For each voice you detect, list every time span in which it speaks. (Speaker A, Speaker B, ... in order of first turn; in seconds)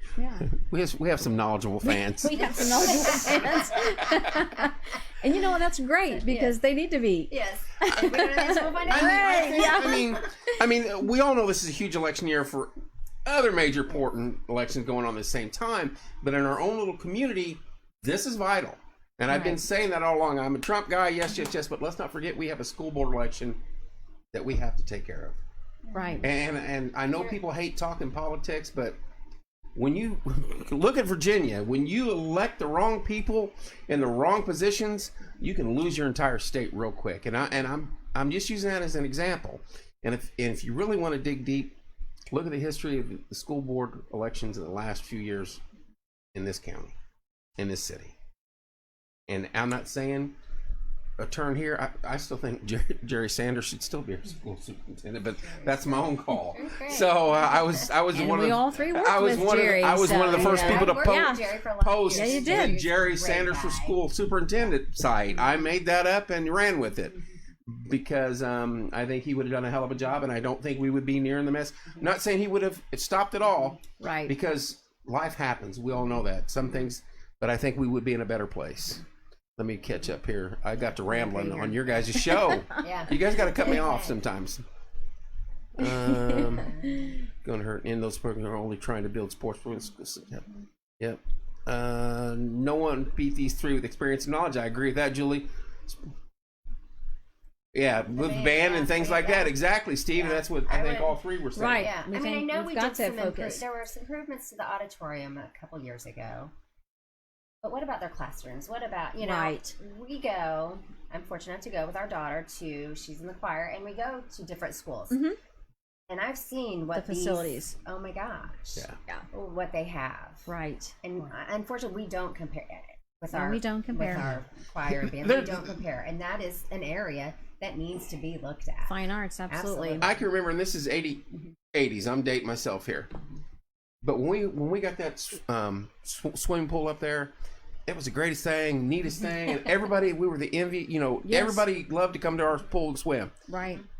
Speaker A: 0.2-0.5, 1.8-10.2, 19.3-19.6, 25.9-26.2, 58.1-61.4, 62.1-62.8, 74.0-74.3, 81.1-82.8, 85.9-87.1, 101.5-103.6, 109.2-109.7, 115.1-115.4, 116.9-117.7, 120.5-120.9, 123.3-124.3, 128.9-130.0, 141.2-141.6, 143.5-143.8
Speaker B: 0.5-3.7, 8.9-12.7, 13.2-23.6, 24.3-25.4, 26.2-29.0, 29.7-41.8, 42.3-45.6, 46.3-46.9, 47.6-48.1, 49.3-50.3, 51.2-61.2, 61.8-67.2, 67.7-79.0, 79.6-84.6, 85.8-86.8, 87.4-90.5, 91.0-96.0, 97.7-101.9, 125.0-125.7, 130.0-133.1, 134.0-137.3, 137.9-143.3
Speaker C: 2.6-3.7, 6.1-6.5, 7.3-10.2, 25.9-26.2, 55.5-57.9, 60.0-64.0, 82.8-84.2, 86.6-86.9, 98.1-99.6, 100.1-101.2, 101.8-106.5, 107.6-115.2, 116.1-120.5, 121.0-128.9, 129.5-130.2